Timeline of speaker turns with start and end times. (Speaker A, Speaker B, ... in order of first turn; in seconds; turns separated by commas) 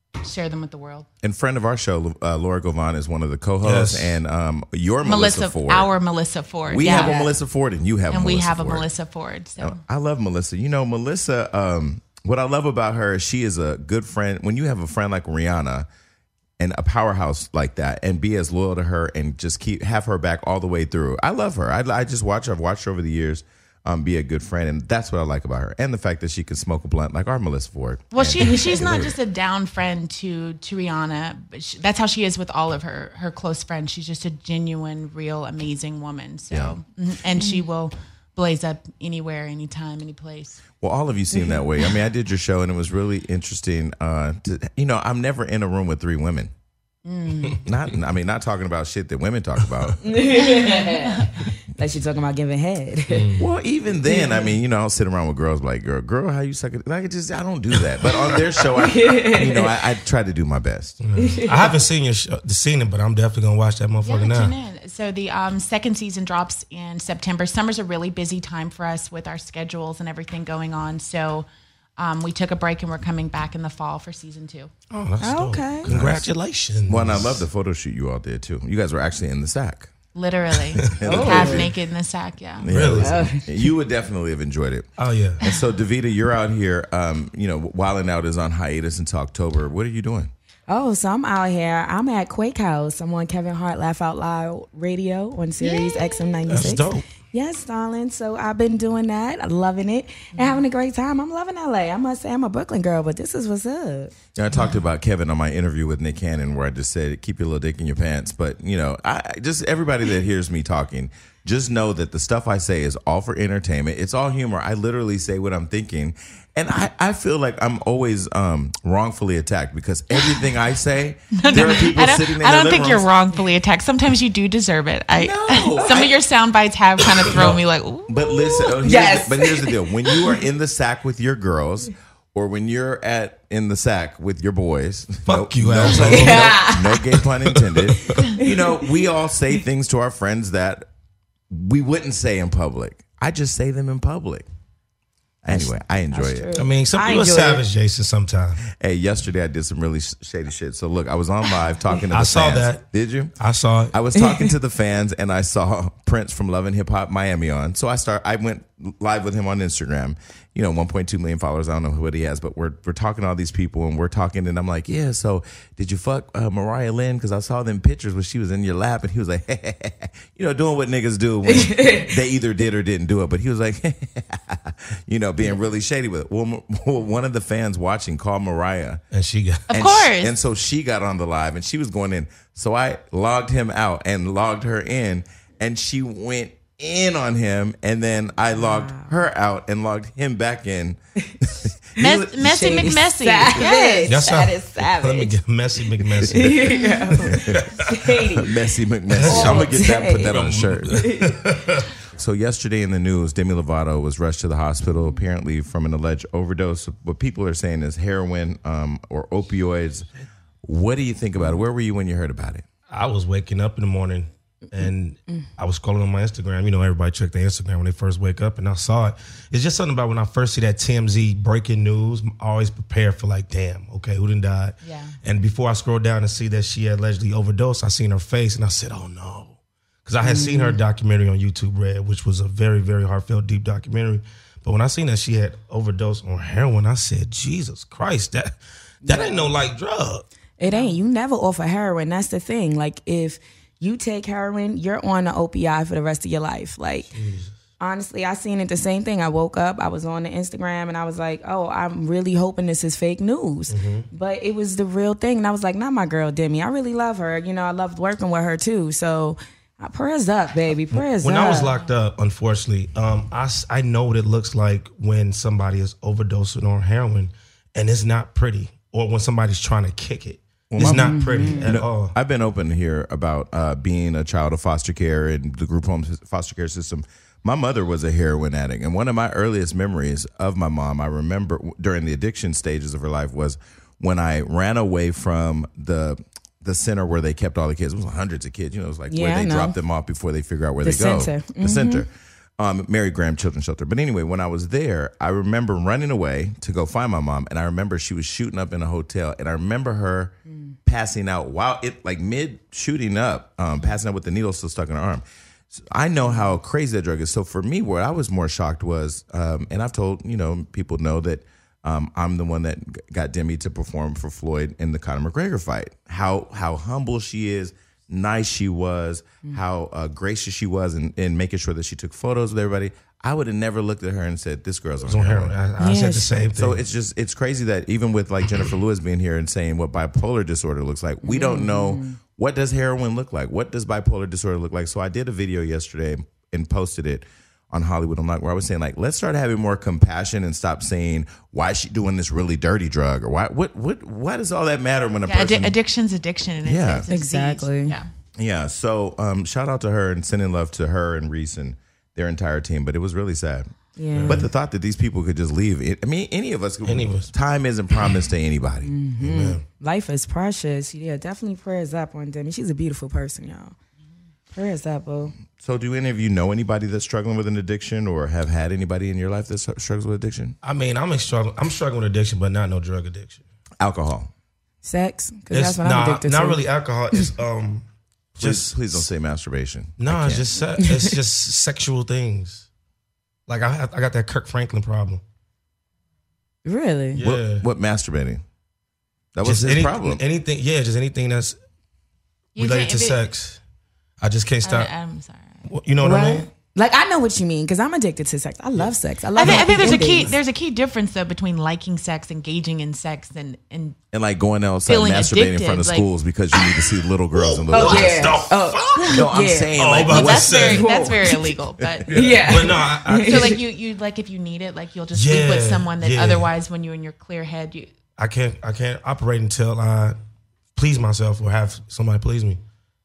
Speaker A: 0.2-1.1, Speaker B: 1.2-5.9, Speaker C: 3.6-4.2, Speaker A: 5.0-7.2, Speaker B: 6.7-8.9, Speaker D: 6.8-7.3, Speaker A: 8.1-9.8, Speaker B: 9.6-15.9, Speaker B: 16.6-29.2, Speaker A: 28.1-40.6, Speaker B: 36.5-36.8, Speaker B: 40.8-46.5, Speaker D: 41.3-41.6, Speaker A: 47.0-47.7, Speaker B: 47.6-50.1, Speaker D: 50.0-53.3, Speaker A: 50.4-51.3, Speaker C: 53.1-53.5, Speaker B: 53.4-61.0, Speaker D: 54.1-54.5, Speaker D: 58.8-59.8, Speaker C: 61.0-64.5, Speaker D: 61.1-61.8, Speaker A: 64.0-71.5, Speaker A: 72.0-74.7, Speaker C: 74.9-77.5, Speaker D: 75.2-75.9, Speaker B: 75.9-76.3, Speaker B: 76.9-79.9, Speaker A: 80.1-82.7, Speaker B: 80.8-81.7, Speaker D: 81.0-81.7, Speaker B: 82.6-84.9, Speaker C: 82.7-83.2, Speaker D: 82.9-83.6, Speaker C: 85.0-85.4, Speaker B: 85.4-90.3, Speaker D: 90.7-104.1, Speaker A: 95.6-96.2, Speaker C: 96.5-97.0, Speaker A: 100.3-100.6, Speaker B: 104.4-123.1, Speaker A: 121.3-128.3, Speaker B: 125.2-126.2, Speaker C: 127.3-127.6, Speaker B: 128.1-140.9, Speaker D: 128.4-130.3, Speaker C: 135.3-138.2, Speaker D: 135.9-137.0, Speaker D: 138.4-138.9, Speaker B: 141.5-144.4, Speaker B: 145.4-146.5, Speaker D: 145.5-147.6, Speaker C: 146.6-148.6, Speaker B: 148.7-153.3, Speaker C: 152.1-152.8, Speaker C: 153.4-153.9, Speaker B: 153.9-179.0, Speaker D: 154.2-154.5, Speaker D: 171.4-172.2, Speaker C: 179.1-179.7, Speaker A: 179.7-180.3, Speaker B: 179.7-192.9, Speaker D: 188.6-189.1, Speaker A: 192.0-194.3, Speaker D: 192.2-195.4, Speaker C: 194.1-197.9, Speaker D: 196.0-198.6, Speaker B: 197.2-201.1, Speaker C: 199.1-201.9, Speaker D: 199.2-201.4, Speaker B: 202.1-210.1, Speaker B: 210.6-212.6, Speaker C: 212.9-240.3, Speaker A: 224.8-225.2, Speaker D: 230.2-230.8, Speaker D: 239.1-239.5, Speaker D: 240.6-247.1, Speaker A: 240.6-241.0, Speaker C: 247.1-247.5, Speaker D: 247.8-261.7, Speaker C: 253.7-254.1, Speaker C: 260.9-272.1, Speaker B: 270.7-300.3, Speaker D: 270.8-271.8, Speaker D: 289.1-289.7, Speaker D: 290.8-292.1, Speaker B: 300.9-325.5, Speaker C: 325.1-326.8, Speaker D: 325.8-326.3, Speaker B: 326.5-345.8, Speaker D: 331.2-332.2, Speaker A: 345.3-348.1, Speaker B: 346.6-347.1, Speaker D: 347.1-348.0, Speaker B: 348.4-353.7, Speaker D: 354.0-354.5, Speaker C: 354.1-354.4, Speaker B: 354.2-358.9, Speaker C: 356.8-357.3, Speaker D: 358.8-363.7, Speaker C: 359.2-359.6, Speaker D: 364.5-365.3, Speaker B: 365.6-370.6, Speaker C: 370.6-373.4, Speaker B: 373.8-374.3, Speaker D: 374.8-377.3, Speaker C: 375.5-377.8, Speaker B: 378.4-380.5, Speaker C: 378.4-379.0, Speaker C: 380.0-382.6, Speaker D: 380.8-381.1, Speaker C: 383.5-385.2, Speaker D: 386.6-387.2, Speaker C: 387.2-387.6, Speaker B: 387.2-388.4, Speaker B: 389.3-390.2, Speaker C: 389.4-391.6, Speaker A: 392.6-393.2, Speaker C: 392.6-393.6, Speaker C: 394.2-394.9, Speaker A: 394.6-395.6, Speaker C: 395.7-396.5, Speaker D: 396.0-400.3, Speaker C: 398.8-400.4, Speaker A: 399.4-404.0, Speaker B: 404.1-408.4, Speaker A: 404.9-406.1, Speaker C: 407.3-410.9, Speaker D: 407.7-409.9, Speaker B: 409.1-411.3, Speaker A: 410.0-417.9, Speaker D: 410.6-411.5, Speaker B: 411.8-412.4, Speaker D: 412.1-413.6, Speaker C: 412.1-413.6, Speaker C: 415.1-416.5, Speaker C: 418.2-420.2, Speaker C: 420.7-422.6